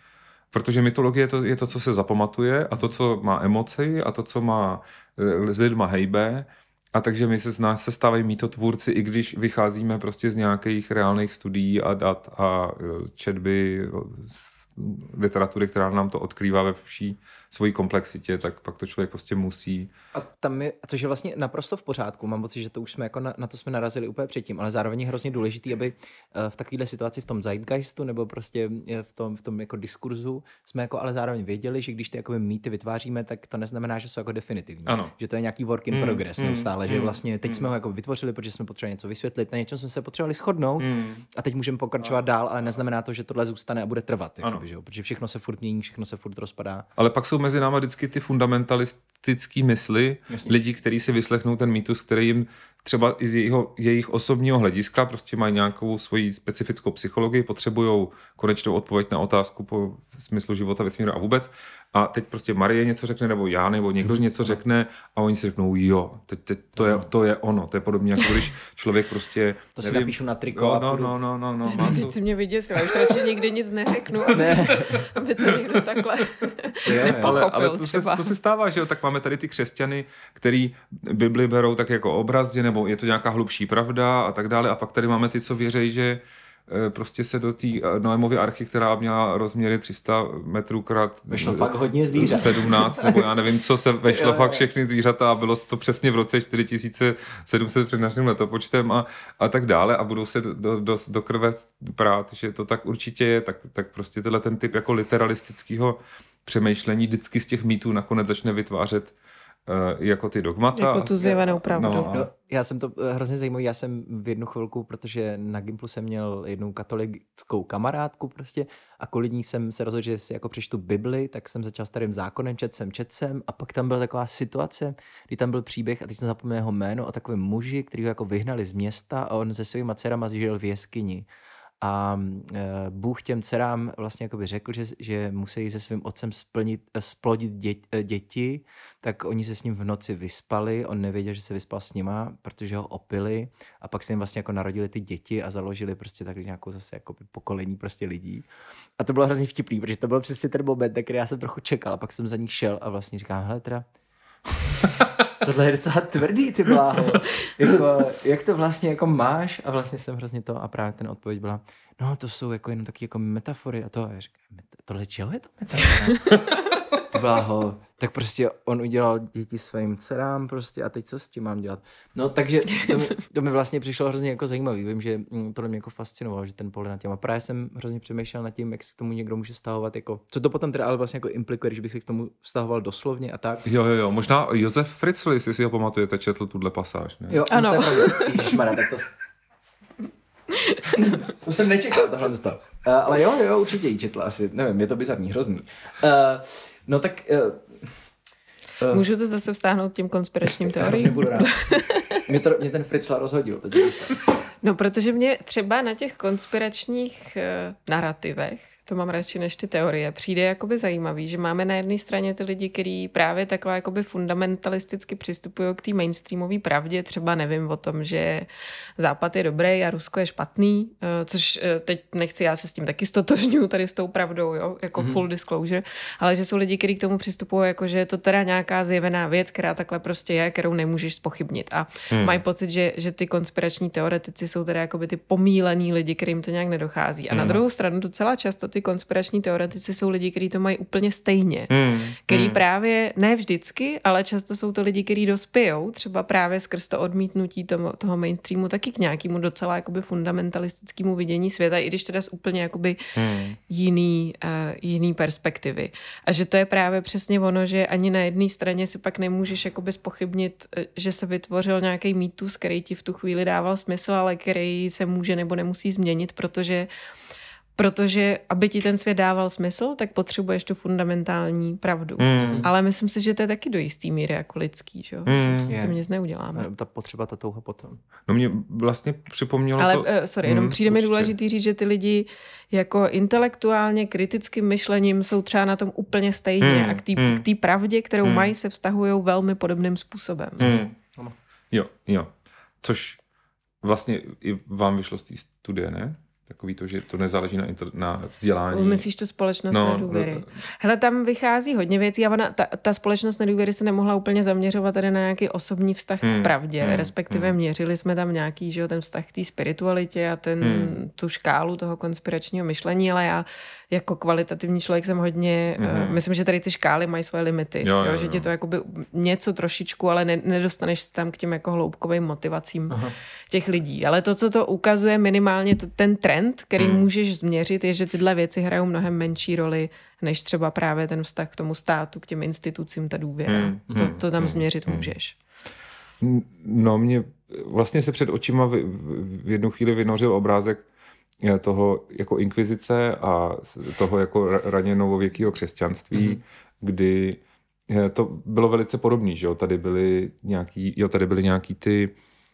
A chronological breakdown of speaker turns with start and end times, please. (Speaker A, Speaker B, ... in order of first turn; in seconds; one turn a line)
Speaker A: 0.5-19.9
Speaker B: 20.1-46.9
Speaker A: 34.9-35.1
Speaker A: 35.9-37.7
Speaker A: 40.8-41.2
Speaker A: 47.0-72.1
Speaker B: 50.3-50.5
Speaker B: 64.0-64.6
Speaker B: 66.8-67.1
Speaker B: 69.8-71.1
Speaker C: 71.7-78.3
Speaker B: 74.3-75.0
Speaker B: 76.8-77.4
Speaker A: 76.9-109.1
Speaker B: 91.3-93.2
Speaker B: 94.0-94.6
Speaker A: 109.7-112.3
Speaker C: 110.7-112.1
Speaker B: 112.0-131.3
Speaker B: 131.8-148.4
Speaker B: 149.0-153.8
Speaker B: 155.4-166.4
Speaker B: 167.1-183.6
Speaker A: 183.7-187.4
Speaker B: 187.3-189.1
Speaker C: 187.5-188.3
Speaker C: 190.5-191.2
Speaker B: 191.2-197.9
Speaker C: 198.9-202.3
Speaker B: 200.6-201.5
Speaker B: 202.2-204.2
Speaker C: 204.6-253.0
Speaker B: 224.9-225.2
Speaker A: 232.1-232.4
Speaker A: 237.3-237.6
Speaker A: 241.7-242.6
Speaker A: 253.2-253.6
Speaker C: 253.6-266.9
Speaker C: 267.8-276.7
Speaker A: 272.2-272.6
Speaker B: 272.4-272.7
Speaker A: 275.3-275.7
Speaker B: 275.7-276.0
Speaker B: 276.5-278.0
Speaker A: 278.3-281.3
Speaker C: 279.8-290.7
Speaker A: 286.6-287.4
Speaker A: 288.2-288.5
Speaker A: 290.6-290.9
Speaker B: 290.6-291.3
Speaker A: 291.7-293.2
Speaker A: 293.8-299.0
Speaker C: 298.7-323.0
Speaker A: 299.7-300.5
Speaker A: 306.2-307.5
Speaker A: 310.6-310.9
Speaker A: 315.8-316.2
Speaker A: 317.8-318.5
Speaker C: 323.5-335.3
Speaker A: 326.8-327.1
Speaker A: 333.5-335.1
Speaker A: 336.2-340.8
Speaker A: 341.4-352.1
Speaker B: 346.1-346.4